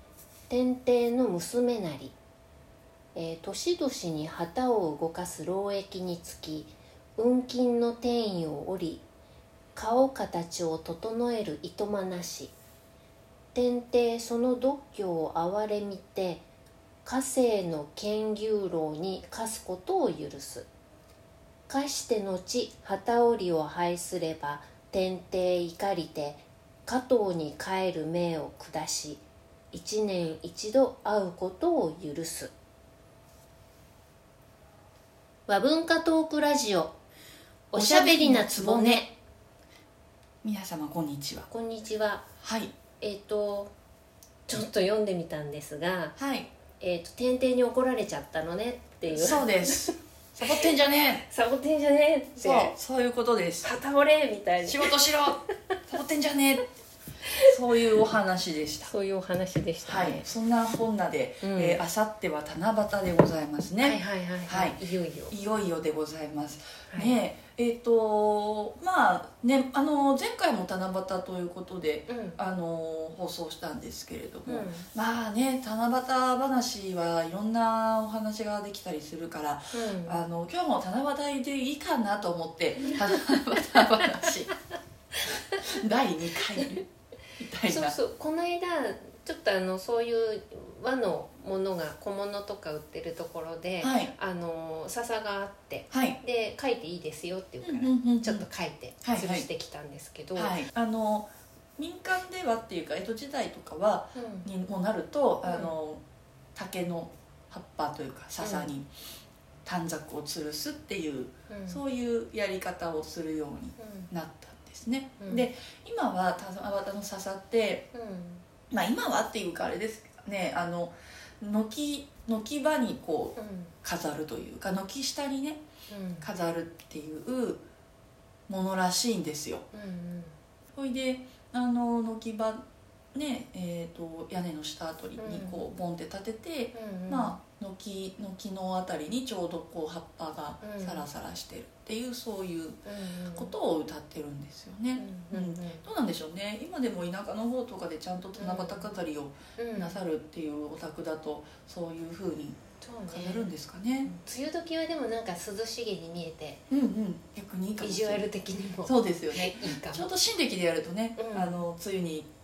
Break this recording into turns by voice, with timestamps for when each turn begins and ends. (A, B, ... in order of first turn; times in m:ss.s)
0:00.5-0:02.1 A
0:03.1-0:09.0 A
0:09.7-0:12.5 A
0:13.5-0:16.4 A
0:17.0-0:20.7 A
0:21.7-0:32.5 A
0:35.5-0:36.9 A
0:37.7-0:39.1 A
0:37.7-0:39.1 B
0:40.4-0:41.5 B
0:41.5-0:42.2 A
0:42.4-0:42.7 B
0:43.0-0:43.7 A
0:44.5-0:46.2 A
0:46.2-0:46.5 B
0:46.8-0:49.9 A
0:49.1-0:51.2 B
0:51.2-0:52.8 A
0:52.4-0:53.7 B
0:53.6-0:55.3 A
0:54.6-0:56.7 B
0:57.4-0:58.9 B
0:58.8-1:00.3 A
0:59.8-1:24.5 B
1:01.4-1:01.8 A
1:03.8-1:05.3 A
1:06.9-1:07.2 A
1:12.1-1:12.4 A
1:14.5-1:14.9 A
1:19.7-1:20.2 A
1:25.6-1:26.8 B
1:27.4-1:28.0 B
1:27.7-1:40.6 A
1:33.8-1:34.1 B
1:35.9-1:36.2 B
1:37.6-1:38.5 B
1:39.0-1:39.4 B
1:40.3-1:46.0 B
1:44.1-1:44.5 A
1:45.4-1:45.7 A
1:46.5-1:48.9 B
1:48.4-1:48.7 A
1:49.6-1:57.9 B
1:51.5-1:51.8 A
1:53.8-1:54.1 A
1:55.2-1:55.5 A
1:57.9-1:58.4 A
1:58.7-2:05.6 B
2:03.4-2:03.7 A
2:05.9-2:06.3 A
2:06.2-2:07.6 B
2:08.5-2:09.6 B
2:09.7-2:10.4 A
2:10.7-2:12.6 B
2:13.1-2:22.8 B
2:15.2-2:15.6 A
2:16.7-2:17.4 A
2:20.6-2:21.0 A
2:22.8-2:23.5 A
2:23.3-2:34.1 B
2:25.0-2:25.8 A
2:28.4-2:28.9 A
2:29.6-2:30.0 A
2:32.8-2:33.5 A
2:34.0-2:36.6 A
2:36.7-2:42.3 B
2:37.8-2:40.1 A
2:41.2-2:41.6 A